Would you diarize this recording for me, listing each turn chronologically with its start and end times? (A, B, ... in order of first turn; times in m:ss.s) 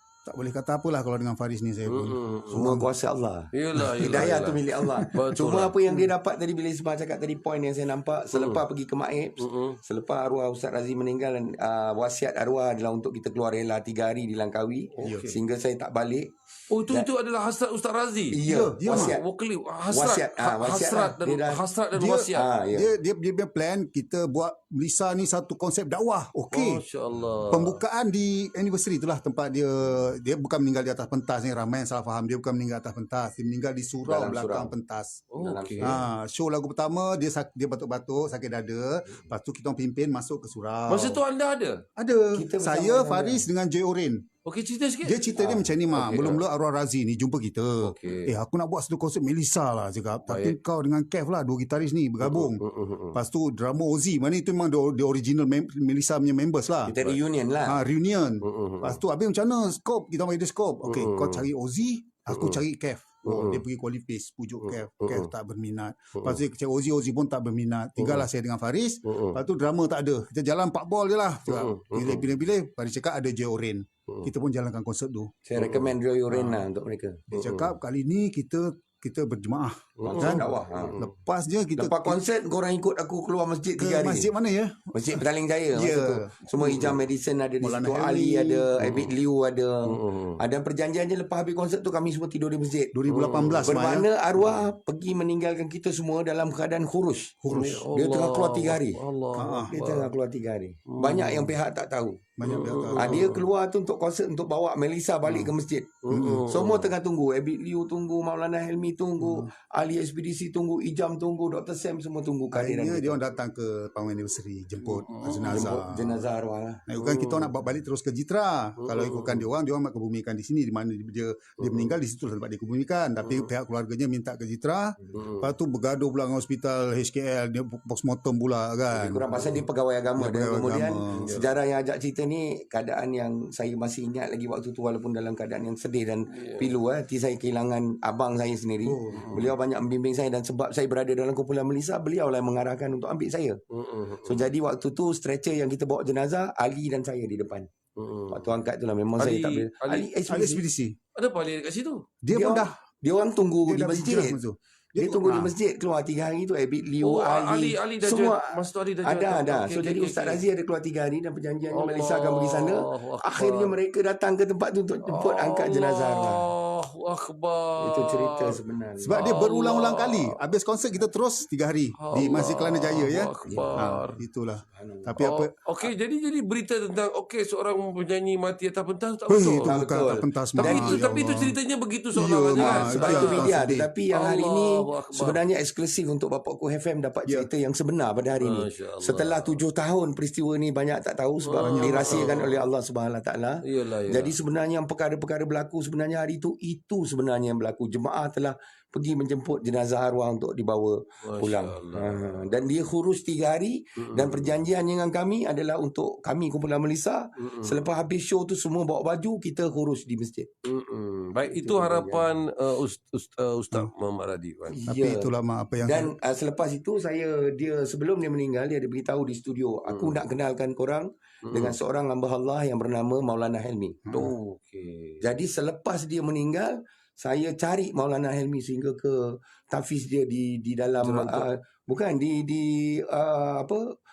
0:00.2-0:02.9 A
0:01.9-0:02.7 B
0:02.5-0:16.3 C
0:03.5-0:04.6 B
0:03.8-0:05.3 A
0:05.1-0:05.9 B
0:08.3-0:08.6 B
0:09.4-0:09.8 B
0:14.9-0:15.4 B
0:15.0-0:15.3 A
0:16.7-0:22.5 B
0:16.8-0:17.1 C
0:18.3-0:19.2 C
0:18.4-0:19.1 A
0:19.8-0:21.6 C
0:21.9-0:26.8 A
0:22.3-0:22.9 C
0:26.5-0:27.8 B
0:27.5-0:35.2 A
0:34.0-0:34.8 C
0:35.3-0:36.0 B
0:35.4-0:36.0 C
0:35.8-0:41.2 A
0:40.9-0:41.8 B
0:42.0-0:44.2 A
0:42.3-0:43.5 C
0:44.4-0:46.4 B
0:45.0-0:52.6 A
0:47.8-0:48.3 B
0:50.2-0:50.6 B
0:52.2-0:53.2 B
0:53.1-0:56.9 A
0:56.9-0:57.8 C
0:57.6-1:15.4 A
0:58.4-0:59.0 B
1:00.8-1:01.5 B
1:02.3-1:02.6 B
1:03.2-1:03.6 B
1:04.6-1:05.3 B
1:06.2-1:06.4 B
1:08.0-1:08.3 B
1:09.1-1:09.4 B
1:11.5-1:12.3 B
1:15.4-1:17.3 C
1:15.6-1:15.9 B
1:16.3-1:16.7 A
1:17.3-1:22.2 A
1:17.4-1:17.8 B
1:20.0-1:21.1 B
1:20.0-1:21.0 C
1:21.8-1:24.3 C
1:23.8-1:27.0 A
1:24.9-1:33.0 C
1:27.6-1:28.9 A
1:28.8-1:29.1 B
1:29.8-1:30.4 B
1:32.9-1:34.1 A
1:33.1-1:33.8 B
1:33.6-1:39.0 C
1:34.4-1:34.7 B
1:37.4-1:37.9 A
1:37.5-1:40.1 B
1:39.3-1:39.7 A
1:39.7-1:53.2 C
1:40.9-1:41.6 B
1:42.4-1:43.3 A
1:42.4-1:43.5 B
1:46.0-1:46.9 B
1:46.1-1:46.4 A
1:49.2-1:49.5 A
1:52.5-1:56.2 A
1:54.8-1:55.8 B
1:55.5-1:56.8 C
1:56.9-2:09.6 A
1:57.0-1:57.6 B
1:58.8-1:59.5 B
2:01.6-2:02.0 B
2:03.2-2:03.5 B
2:05.0-2:05.2 C
2:05.1-2:05.5 B
2:08.9-2:23.6 C
2:10.2-2:11.3 A
2:11.2-2:11.5 B
2:16.3-2:16.7 B
2:18.8-2:19.5 A
2:19.1-2:19.5 B
2:23.7-2:24.5 B
2:24.2-2:27.7 C
2:28.0-2:28.6 B
2:28.3-2:30.6 C
2:29.2-2:30.1 B
2:30.3-2:31.0 A
2:31.2-2:32.0 B
2:32.2-2:32.7 A
2:32.3-2:34.4 C
2:33.6-2:35.5 A
2:35.0-2:46.5 C
2:37.0-2:40.4 B
2:41.7-2:43.8 B
2:45.1-2:48.6 B
2:47.8-2:49.4 C
2:49.0-2:55.6 A
2:49.1-2:50.4 B
2:52.0-2:54.2 B
2:53.5-2:54.0 C
2:54.7-2:55.2 C
2:55.2-2:59.8 B
2:59.3-3:01.6 A
2:59.6-3:01.2 C
3:00.6-3:03.5 B
3:02.1-3:03.9 A
3:02.6-3:30.5 C
3:04.1-3:05.4 B
3:08.4-3:09.6 B
3:11.4-3:12.7 B
3:11.6-3:12.3 A
3:13.6-3:14.4 B
3:21.2-3:22.5 B
3:24.0-3:24.6 B
3:27.4-3:27.8 B
3:30.6-3:34.8 B
3:31.4-3:32.4 C
3:34.7-3:44.1 C
3:34.8-3:36.1 A
3:39.9-3:40.2 B
3:41.5-3:41.8 B
3:44.0-3:44.3 A
3:44.1-3:45.2 B
3:45.2-3:53.8 C
3:51.0-3:51.5 B